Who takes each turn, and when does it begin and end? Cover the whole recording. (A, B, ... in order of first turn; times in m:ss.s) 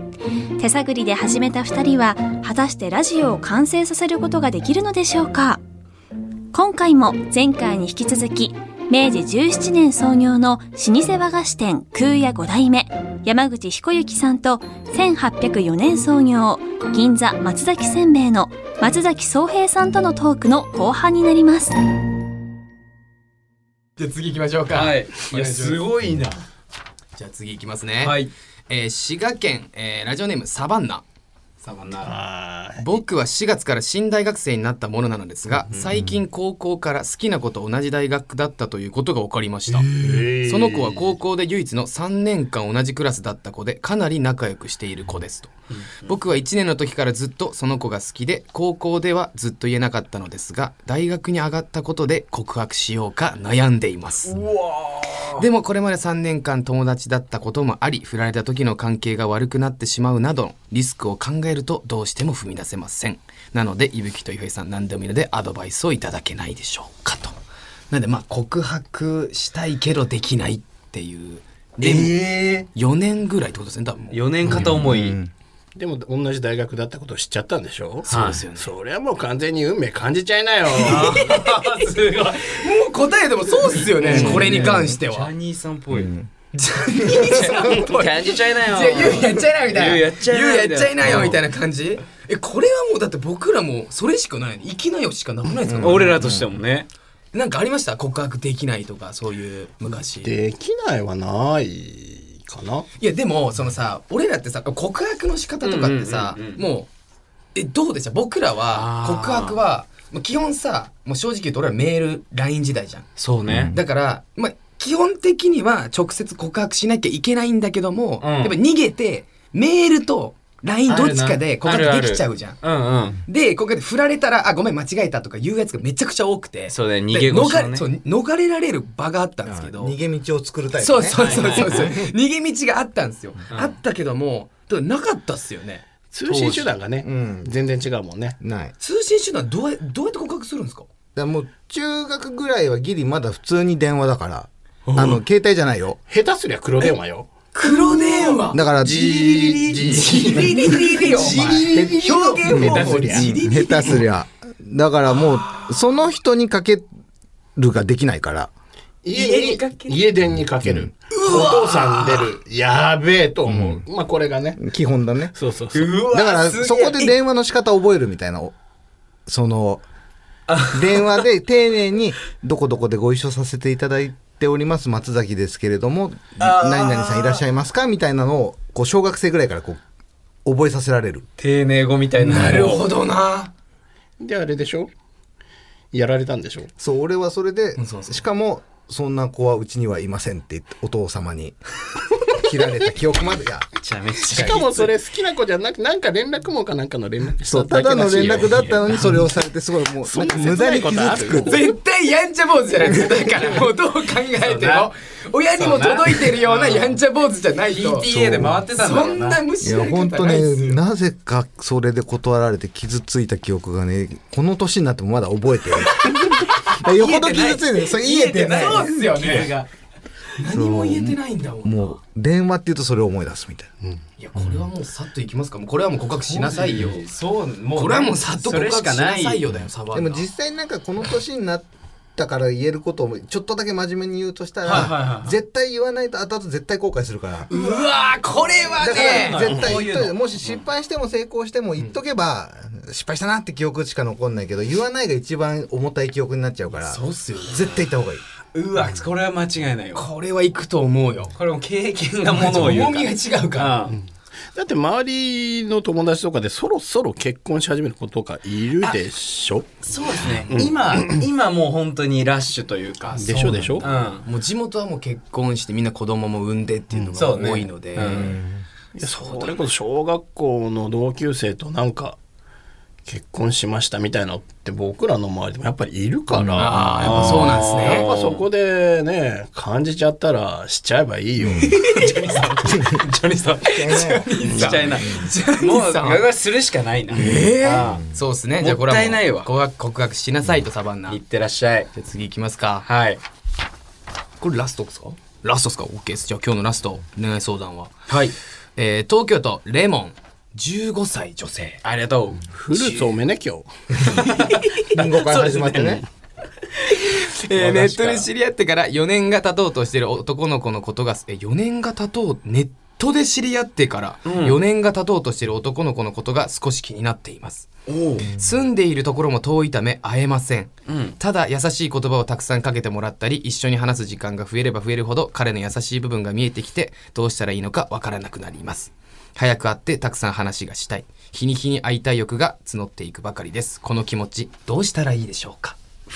0:00.6-0:05.6 A
0:06.5-0:21.8 A
0:24.0-0:25.8 B
0:24.7-0:26.4 C
0:27.2-0:31.0 B
0:28.0-0:28.3 C
0:31.6-0:32.2 C
0:32.0-0:32.9 D
0:32.8-0:45.5 B
0:35.5-0:35.9 C
0:35.9-0:36.2 E
0:39.7-0:41.1 D
0:45.7-0:46.1 C
0:46.0-0:54.4 B
0:54.3-0:55.4 C
0:55.4-1:07.4 B
1:07.9-1:12.2 B
1:11.8-1:12.6 D
1:12.0-1:12.3 C
1:12.7-1:14.3 B
1:14.1-1:15.2 C
1:14.5-1:14.8 D
1:14.5-1:15.3 E
1:15.7-1:21.3 D
1:18.0-1:18.7 B
1:18.1-1:18.4 C
1:20.7-1:21.9 B
1:20.8-1:22.6 C
1:22.4-1:25.3 B
1:23.6-1:26.1 C
1:24.0-1:25.0 E
1:25.9-1:26.3 E
1:26.5-1:36.2 B
1:27.1-1:31.4 C
1:35.5-1:36.5 E
1:35.8-1:36.9 C
1:37.3-1:40.3 B
1:40.0-1:42.9 D
1:43.0-1:46.9 B
1:45.6-1:46.6 C
1:47.5-1:53.1 B
1:48.7-1:49.6 C
1:53.2-1:53.7 C
1:53.4-1:53.8 E
1:53.7-2:02.6 B
1:58.2-1:58.6 C
2:00.9-2:03.2 C
2:03.2-2:10.0 B
2:06.7-2:07.8 C
2:09.4-2:12.1 E
2:10.8-2:15.8 B
2:11.2-2:11.9 C
2:13.5-2:13.8 C
2:16.1-2:18.4 D
2:16.3-2:16.6 C
2:17.0-2:17.5 E
2:18.4-2:18.7 E
2:18.8-2:20.9 B
2:21.1-2:26.0 E
2:24.9-2:25.2 D
2:26.1-2:33.7 D
2:27.5-2:28.6 B
2:28.5-2:30.0 E
2:29.7-2:34.0 B
2:31.5-2:31.7 E
2:32.5-2:36.8 E
2:35.3-2:35.8 C
2:37.6-2:38.5 E
2:39.0-2:44.6 D
2:39.1-2:40.1 C
2:40.6-2:40.9 E
2:41.1-2:42.2 B
2:43.5-2:43.8 E
2:44.6-2:45.3 E
2:45.3-2:46.0 D
2:45.7-2:47.2 C
2:46.0-2:48.5 E
2:49.3-2:49.8 E
2:50.5-2:51.1 C
2:50.6-2:59.8 E
2:56.4-2:57.4 C
3:00.4-3:01.2 E
3:01.4-3:02.8 C
3:02.2-3:03.5 B
3:04.2-3:04.9 D
3:05.9-3:06.7 D
3:06.8-3:11.6 E
3:07.8-3:08.3 B
3:12.3-3:13.7 E
3:13.8-3:14.8 C
3:14.3-3:18.5 D
3:14.4-3:14.9 E
3:17.4-3:21.6 E
3:18.2-3:19.4 C
3:20.0-3:21.6 D
3:21.4-3:30.8 B
3:24.4-3:24.9 C
3:25.5-3:27.0 C
3:27.7-3:29.4 C
3:29.6-3:38.9 E
3:36.0-3:36.4 B
3:36.5-3:39.7 C
3:38.3-3:39.5 B
3:40.4-3:42.0 B
3:40.5-3:43.7 E
3:44.2-3:47.0 B
3:46.1-3:49.5 C
3:47.7-3:50.3 B
3:49.9-3:57.5 E
3:54.6-3:55.4 C
3:57.5-3:59.5 B
3:57.5-4:00.7 C
3:58.8-4:08.2 E
3:59.5-3:59.8 D
4:06.7-4:07.9 B
4:08.5-4:10.1 C
4:09.9-4:11.3 B
4:11.3-4:14.0 C
4:12.2-4:13.8 B
4:14.5-4:21.2 D
4:19.8-4:24.2 C
4:23.0-4:28.4 B
4:23.2-4:23.8 D
4:27.1-4:28.4 C
4:28.0-4:28.6 E
4:29.0-4:32.2 D
4:29.0-4:29.7 B
4:33.0-4:42.4 D
4:36.6-4:38.0 B
4:36.9-4:38.4 C
4:41.4-4:41.7 E
4:41.9-4:42.4 B
4:41.9-4:48.0 C
4:43.6-4:45.3 E
4:43.8-4:46.2 B
4:44.5-4:44.8 D
4:47.1-4:51.2 B
4:47.2-4:48.2 E
4:48.6-4:49.5 C
4:51.1-4:51.9 C
4:51.9-4:52.9 B
4:52.8-4:53.2 C
4:54.4-4:57.9 B
4:58.1-4:58.3 C
4:58.8-5:01.8 B
5:01.8-5:02.5 C
5:02.5-5:04.2 D
5:02.7-5:03.1 B
5:04.1-5:06.0 C
5:04.4-5:04.8 B
5:04.9-5:06.0 E
5:06.9-5:17.7 B
5:07.5-5:08.3 C
5:14.2-5:14.6 C
5:17.9-5:18.3 C
5:18.3-5:35.8 B
5:20.8-5:21.2 C